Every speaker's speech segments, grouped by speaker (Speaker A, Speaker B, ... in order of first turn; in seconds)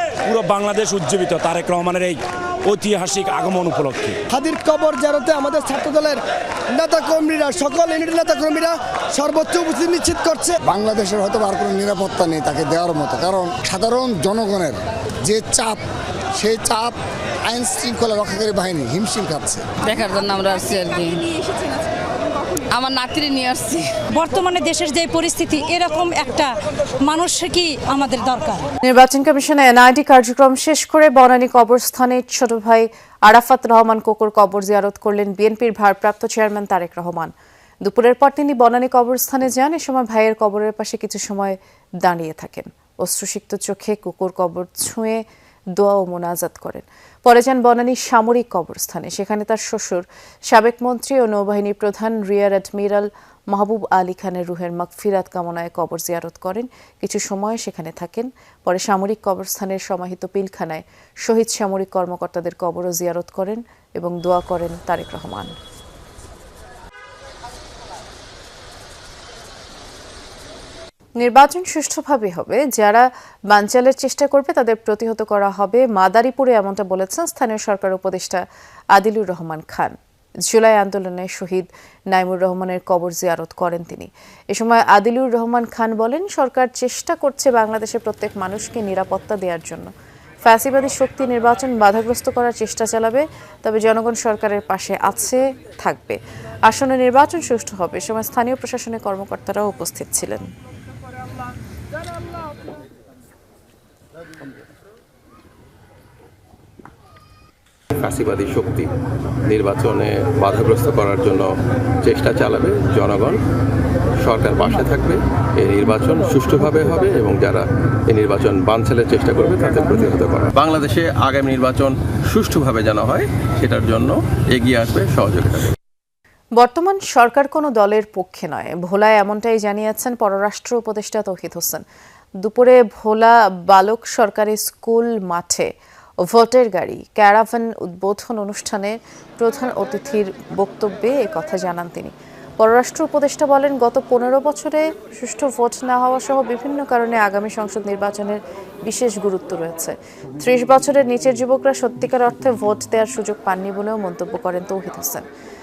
Speaker A: 0.2-2.2, 2.7-4.2
Speaker B: 4.3-6.2, 6.8-10.6
Speaker C: 10.7-15.8, 16.4-19.6
Speaker D: 19.9-21.2, 22.7-24.0
Speaker E: 24.1-28.6
Speaker F: 28.8-37.3, 37.8-45.2, 45.8-65.5, 71.2-78.4, 79.0-80.0, 80.5-89.9, 90.4-100.5, 126.6-131.8, 132.4-135.7, 136.3-155.3
Speaker G: 108.0-108.9, 109.5-111.5, 112.0-113.4, 114.2-125.7